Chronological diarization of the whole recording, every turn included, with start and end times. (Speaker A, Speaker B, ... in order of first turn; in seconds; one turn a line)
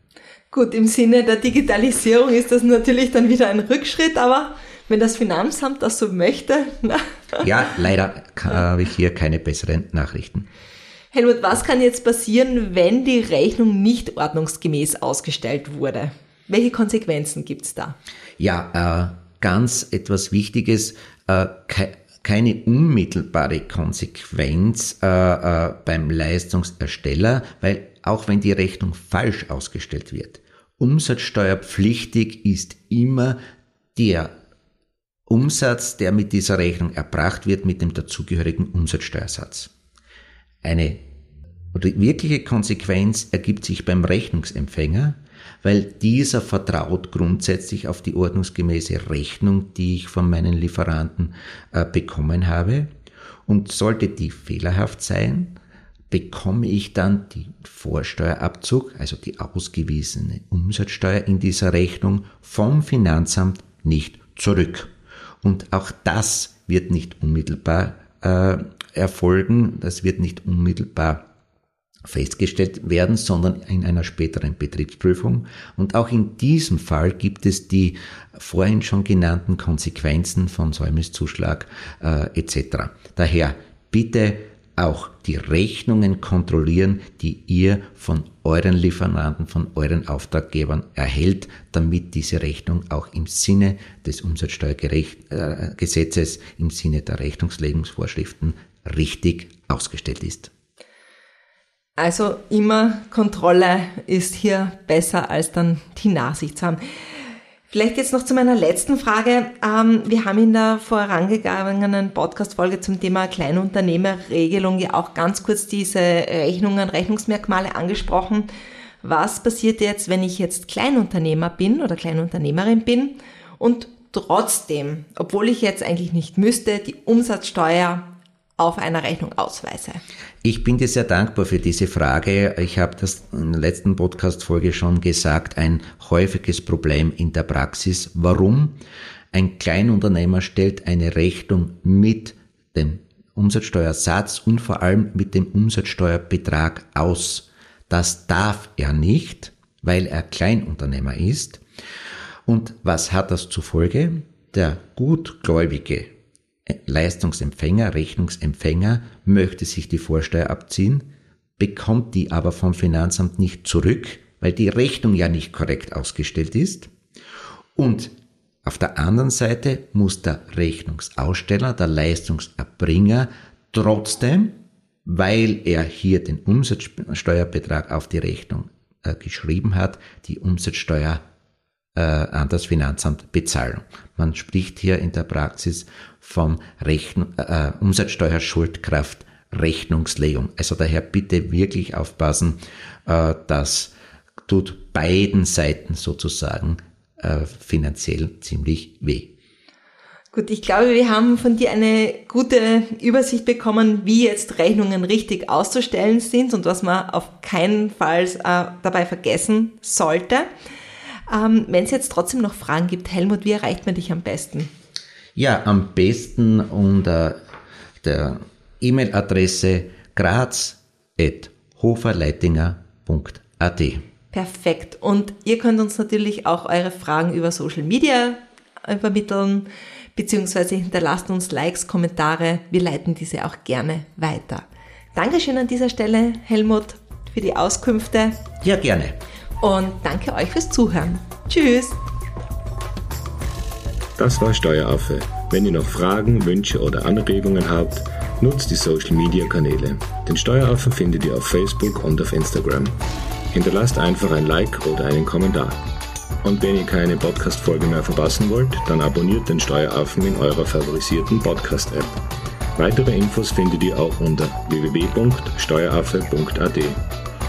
Speaker A: 0.5-7.5
Speaker B: 7.4-10.4
Speaker A: 11.1-17.9
Speaker B: 18.4-33.4
Speaker B: 33.9-34.3
Speaker B: 35.3-39.7
Speaker B: 40.6-41.0
Speaker B: 41.7-52.9
Speaker B: 53.5-55.5
Speaker B: 56.1-64.9
Speaker B: 65.4-71.2
Speaker B: 72.0-100.5
Speaker A: 102.0-106.8
Speaker A: 107.7-118.5
Speaker A: 119.0-130.0
Speaker B: 130.4-138.8
Speaker B: 139.3-151.6
Speaker B: 152.5-156.1
Speaker B: 156.7-161.0
Speaker B: 161.6-166.9
Speaker B: 167.8-168.1
Speaker B: 168.6-181.2
Speaker B: 181.9-193.9
Speaker B: 194.5-199.3
Speaker A: 200.3-210.5
Speaker A: 211.3-214.7
Speaker B: 215.3-217.4
Speaker B: 218.0-224.0
Speaker A: 224.3-238.4
Speaker B: 238.6-239.2
Speaker A: 239.6-241.9
Speaker C: 244.2-253.0
Speaker C: 253.5-255.8
Speaker C: 256.4-262.2
Speaker C: 262.7-267.0